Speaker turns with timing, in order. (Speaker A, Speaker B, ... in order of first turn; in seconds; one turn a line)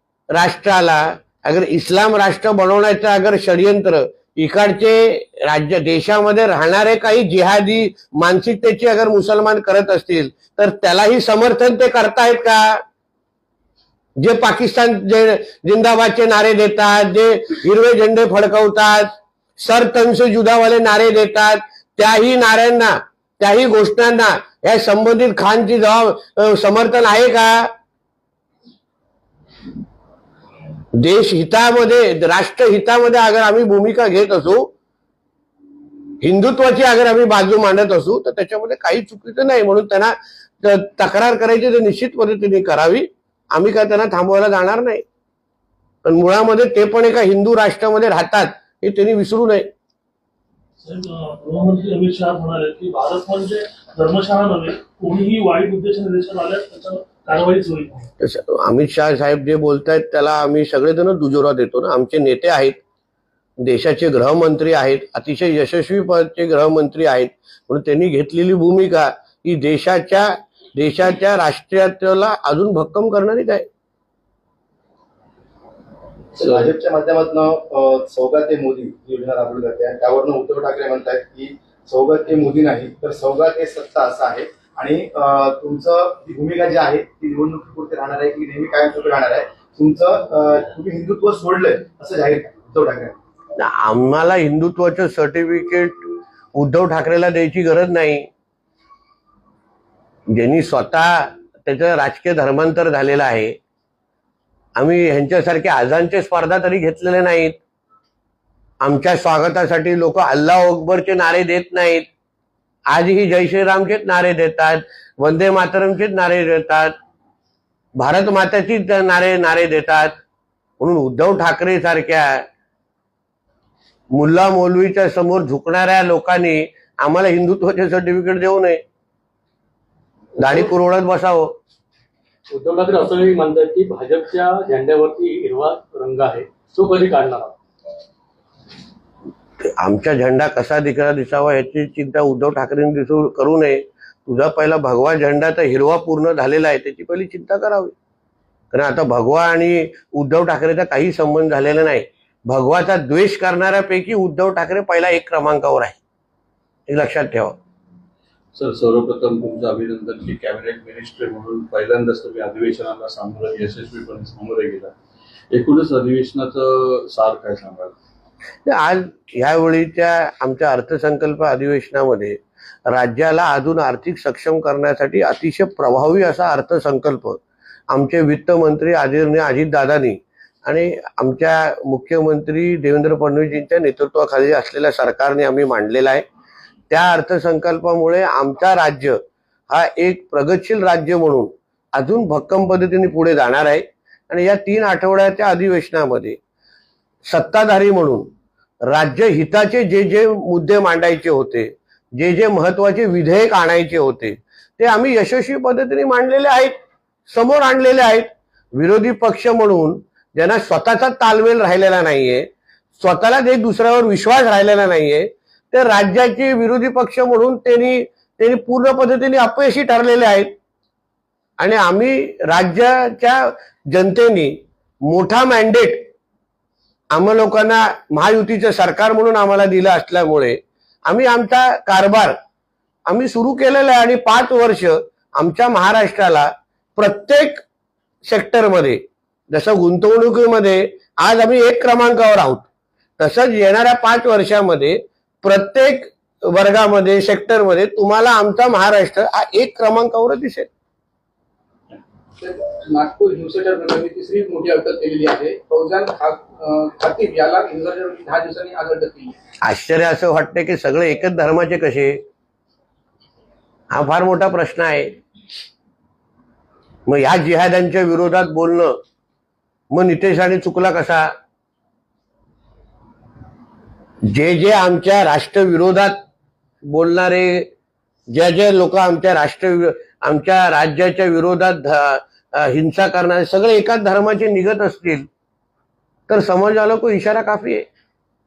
Speaker A: 0.3-12.8
Speaker A: 14.2-27.7
Speaker A: 30.9-34.7
Speaker A: 36.2-45.0
Speaker A: 46.0-49.7
Speaker B: 50.8-58.1
Speaker A: 58.2-62.8
Speaker A: 63.6-73.7
Speaker C: 76.3-93.2
Speaker A: 93.6-98.3
Speaker A: 100.3-103.5
Speaker A: 104.8-107.6
Speaker A: 108.8-112.1
Speaker A: 112.9-116.9
Speaker A: 118.0-120.2
Speaker A: 120.8-122.5
Speaker A: 124.1-128.8
Speaker A: 130.4-131.6
Speaker D: 132.5-137.6
Speaker A: 139.6-147.9
Speaker A: 148.7-156.0
Speaker A: 156.9-157.6
Speaker E: 158.6-164.9
Speaker E: 165.5-168.0
Speaker A: 168.7-186.2
Speaker A: 186.9-196.4
Speaker A: 197.3-198.3
Speaker A: 198.9-206.7
Speaker A: 207.3-212.5
Speaker A: 213.0-220.5
Speaker A: 221.6-224.6
Speaker A: 225.1-226.1
Speaker A: 227.1-232.4
Speaker A: 233.1-237.6
Speaker A: 238.3-242.7
Speaker A: 243.2-250.7
Speaker F: 252.4-259.4
Speaker A: 259.6-262.2
Speaker A: 263.9-265.1
Speaker A: 267.1-269.0
Speaker A: 269.9-271.3
Speaker A: 274.3-276.2
Speaker A: 276.9-277.7
Speaker A: 278.3-285.3
Speaker A: 286.3-287.9